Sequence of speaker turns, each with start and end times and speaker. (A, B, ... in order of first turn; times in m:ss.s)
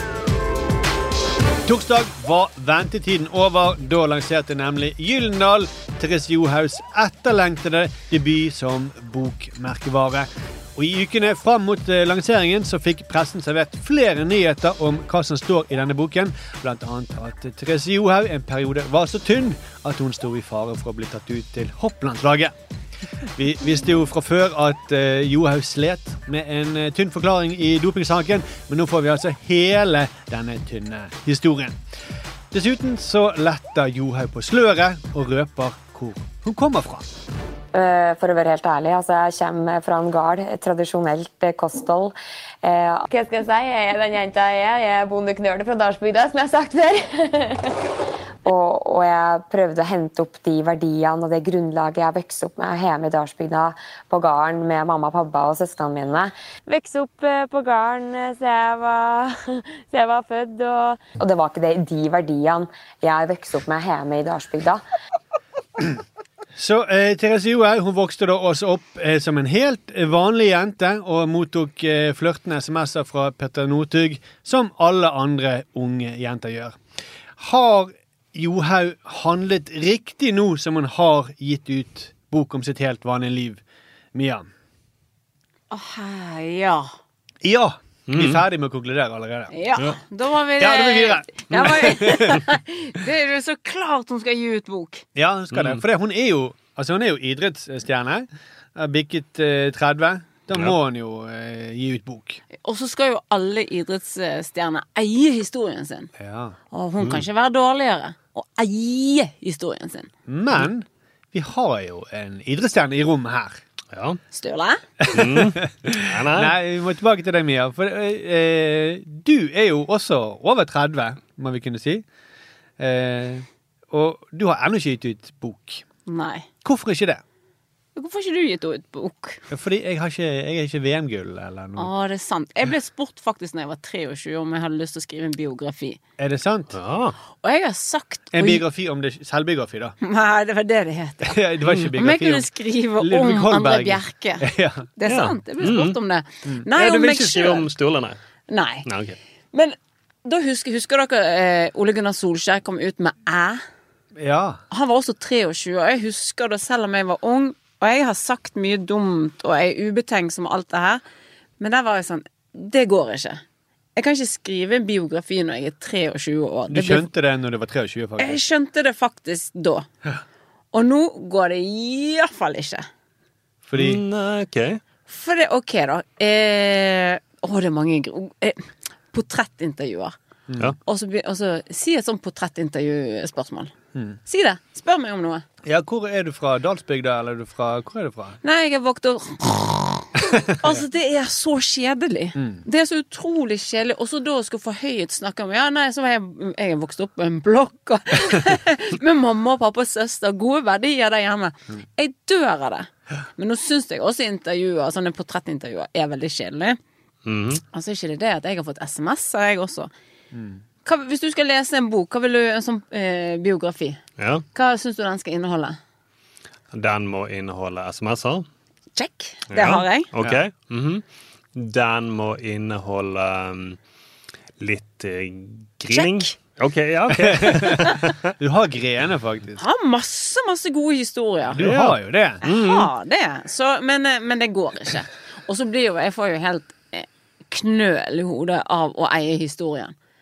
0:01.6-0:22.5 A
0:23.4-0:31.8 A
0:32.5-0:37.1 A
0:37.7-0:47.8 B
0:48.4-1:04.8 B
1:06.6-1:16.8 A
1:17.4-1:23.6 A
1:24.1-1:24.5 A
1:25.7-1:26.9 C
1:27.4-1:29.5 A
1:28.1-1:28.4 D
1:29.5-1:35.0 C
1:30.6-1:32.4 A
1:35.2-1:42.4 A
1:35.5-1:35.8 D
1:42.6-1:46.1 C
1:46.2-1:46.6 A
1:46.7-1:50.1 C
1:50.3-1:53.6 A
1:53.9-1:54.2 D
1:54.3-1:54.8 C
1:55.0-2:02.0 A
1:55.1-1:56.5 D
2:02.8-2:05.8 A
2:06.1-2:06.5 C
2:06.6-2:07.2 A
2:08.0-2:09.4 C
2:09.5-2:11.9 A
2:11.8-2:16.0 C
2:16.2-2:16.8 A
2:16.7-2:17.2 D
2:17.4-2:18.6 C
2:18.3-2:20.0 A
2:20.0-2:27.7 C
2:21.2-2:24.9 A
2:25.1-2:26.0 D
2:26.8-2:28.2 D
2:28.5-2:28.9 C
2:28.9-2:29.2 D
2:29.5-2:33.6 C
2:34.2-2:34.6 A
2:34.7-2:41.0 C
2:41.6-2:43.4 C
2:44.0-2:47.1 C
2:46.7-2:48.4 A
2:48.2-2:49.9 C
2:50.7-2:52.9 C
2:53.7-2:54.0 A
2:53.8-2:54.8 D
2:55.1-3:00.2 C
3:00.5-3:00.8 A
3:00.8-3:03.7 C
3:04.3-3:05.4 C
3:05.6-3:08.4 A
3:08.4-3:26.8 C
3:12.4-3:12.6 A
3:27.2-3:27.6 D
3:27.7-3:29.9 C
3:30.3-3:30.6 A
3:30.8-3:34.0 C
3:34.2-3:34.4 D
3:34.5-3:35.8 C
3:36.7-3:38.5 D
3:39.0-3:40.1 C
3:39.5-3:41.0 D
3:41.6-3:43.8 D
3:44.6-3:48.3 D
3:45.9-3:46.3 C
3:47.1-3:49.6 A
3:49.6-3:51.6 C
3:51.5-3:52.4 A
3:51.6-3:52.9 D
3:52.4-4:00.0 C